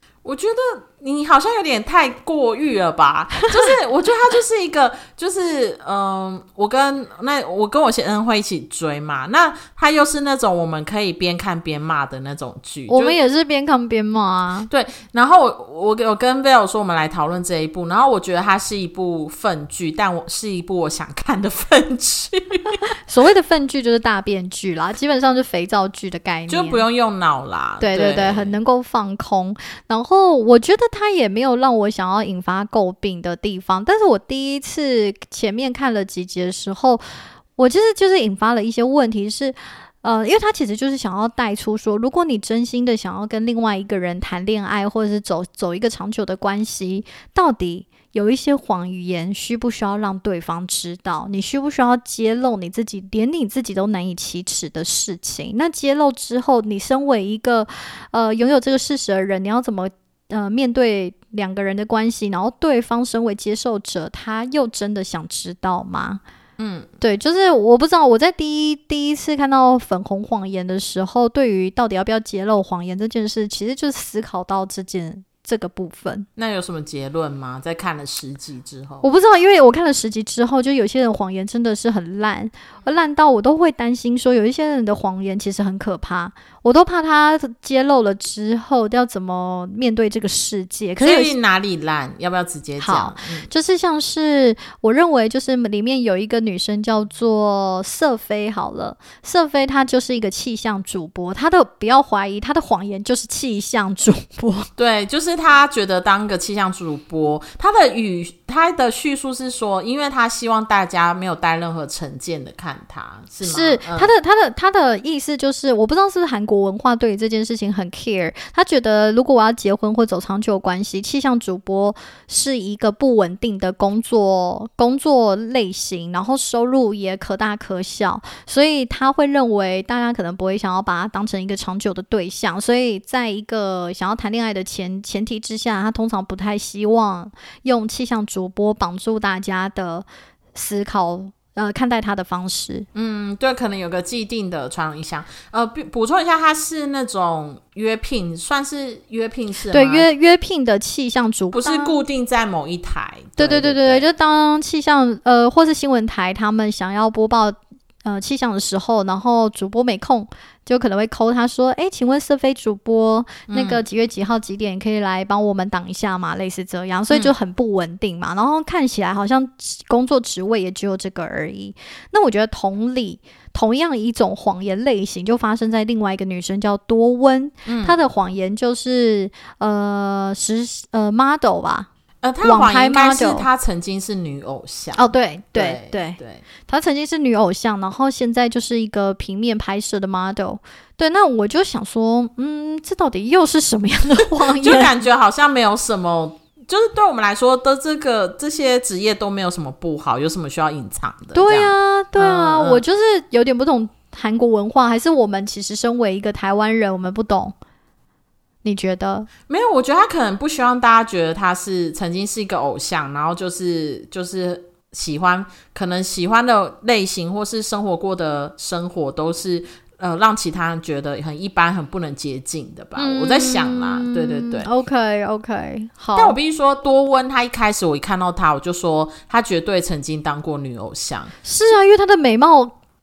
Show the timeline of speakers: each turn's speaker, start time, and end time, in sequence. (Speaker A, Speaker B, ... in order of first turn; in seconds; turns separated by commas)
Speaker A: 0.2-13.2, Speaker B: 12.9-14.7, Speaker A: 14.7-22.8, Speaker B: 23.1-26.8, Speaker A: 26.5-28.5, Speaker B: 27.8-37.0, Speaker B: 37.5-66.2, Speaker A: 66.6-66.9, Speaker B: 67.0-76.3, Speaker A: 76.4-79.0, Speaker B: 79.0-91.3, Speaker A: 91.0-93.5, Speaker B: 92.8-104.7, Speaker A: 104.8-114.1, Speaker B: 113.4-142.9, Speaker A: 142.9-150.1, Speaker B: 149.7-152.0, Speaker A: 151.5-154.1, Speaker B: 153.4-181.9, Speaker A: 163.5-163.8, Speaker A: 177.7-177.9, Speaker A: 182.2-186.4, Speaker B: 182.4-183.5, Speaker B: 184.9-194.9, Speaker A: 194.5-202.8, Speaker B: 201.3-207.5, Speaker B: 208.6-209.3, Speaker A: 209.5-224.7, Speaker B: 223.0-226.4, Speaker A: 226.1-231.3, Speaker B: 231.4-232.8